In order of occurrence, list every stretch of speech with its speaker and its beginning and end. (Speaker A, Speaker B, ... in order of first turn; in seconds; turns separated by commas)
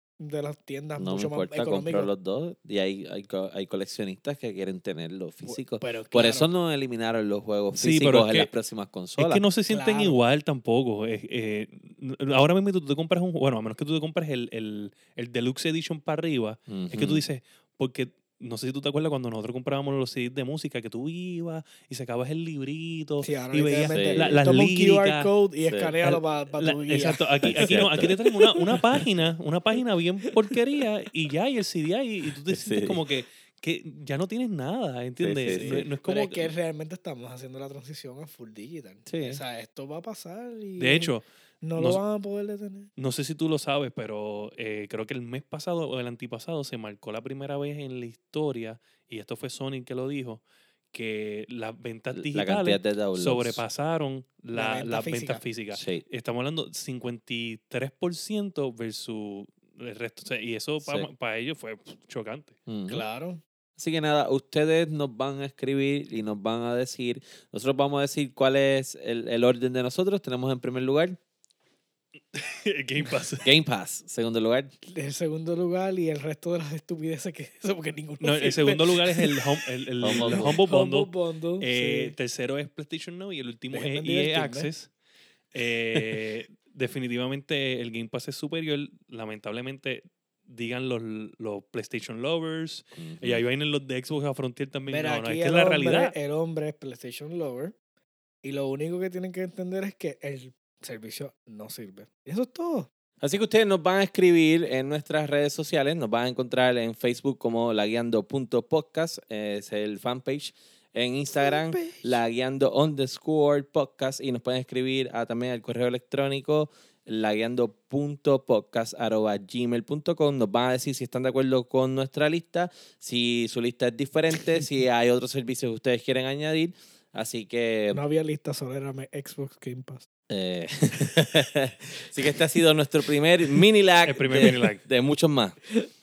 Speaker A: 0.2-2.1, Speaker B: 0.9-9.4, Speaker A: 5.4-6.5, Speaker C: 7.7-8.5, Speaker C: 9.2-25.3, Speaker A: 9.7-10.2, Speaker B: 16.7-17.2, Speaker A: 23.2-28.8, Speaker B: 23.9-24.4, Speaker B: 25.6-26.0, Speaker C: 26.0-36.5, Speaker B: 27.4-28.1, Speaker B: 32.5-33.0, Speaker B: 35.2-35.9, Speaker A: 35.5-42.9, Speaker B: 39.1-39.4, Speaker C: 40.8-42.0, Speaker C: 43.0-50.4, Speaker C: 50.9-62.5, Speaker B: 52.1-53.6, Speaker A: 54.5-55.4, Speaker B: 55.7-56.0, Speaker B: 60.8-61.1, Speaker B: 62.7-63.0, Speaker A: 62.9-63.4, Speaker B: 63.8-71.2, Speaker C: 72.3-73.5, Speaker B: 73.4-74.7, Speaker A: 74.9-82.1, Speaker C: 78.2-84.9, Speaker B: 80.0-80.6, Speaker A: 83.7-84.7, Speaker C: 85.5-96.1, Speaker B: 93.0-93.4, Speaker A: 94.9-97.8, Speaker A: 98.4-102.9, Speaker B: 103.2-128.0, Speaker A: 111.4-112.2, Speaker A: 127.9-130.1, Speaker B: 130.3-135.6, Speaker C: 134.0-134.8